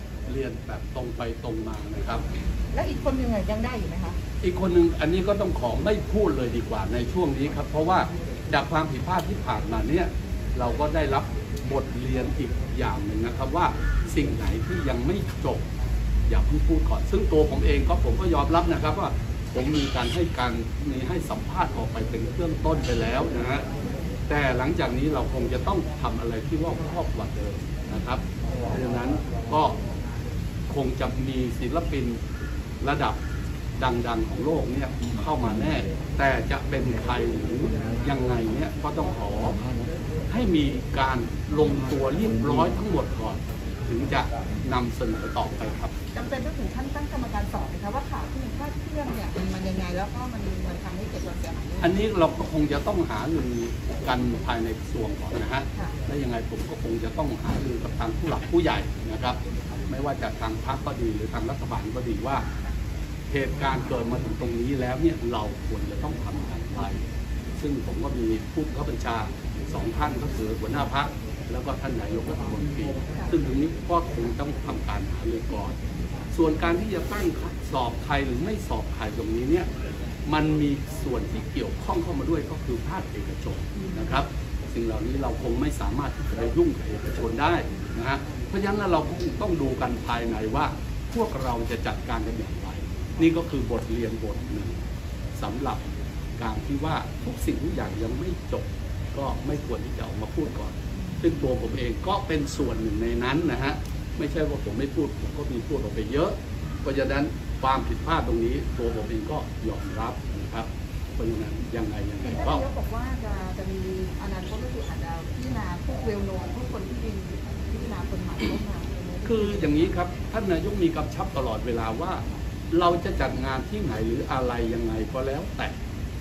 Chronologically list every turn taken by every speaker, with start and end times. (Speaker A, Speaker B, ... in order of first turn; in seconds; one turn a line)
Speaker A: 0.3-2.2
Speaker B: 2.7-4.2
Speaker A: 4.4-15.6
Speaker A: 16.3-23.6
Speaker A: 24.3-29.8
Speaker A: 30.7-32.2
Speaker A: 32.8-33.2
Speaker A: 33.8-39.7
Speaker A: 40.3-45.9
Speaker B: 46.1-51.9
Speaker A: 51.8-59.4
Speaker A: 59.9-62.5
Speaker A: 63.3-67.0
Speaker A: 67.6-75.7
Speaker A: 76.3-79.7
Speaker A: 80.3-94.8
Speaker A: 95.3-95.8
Speaker A: 96.4-112.6
Speaker B: 112.2-119.5
Speaker A: 119.2-125.7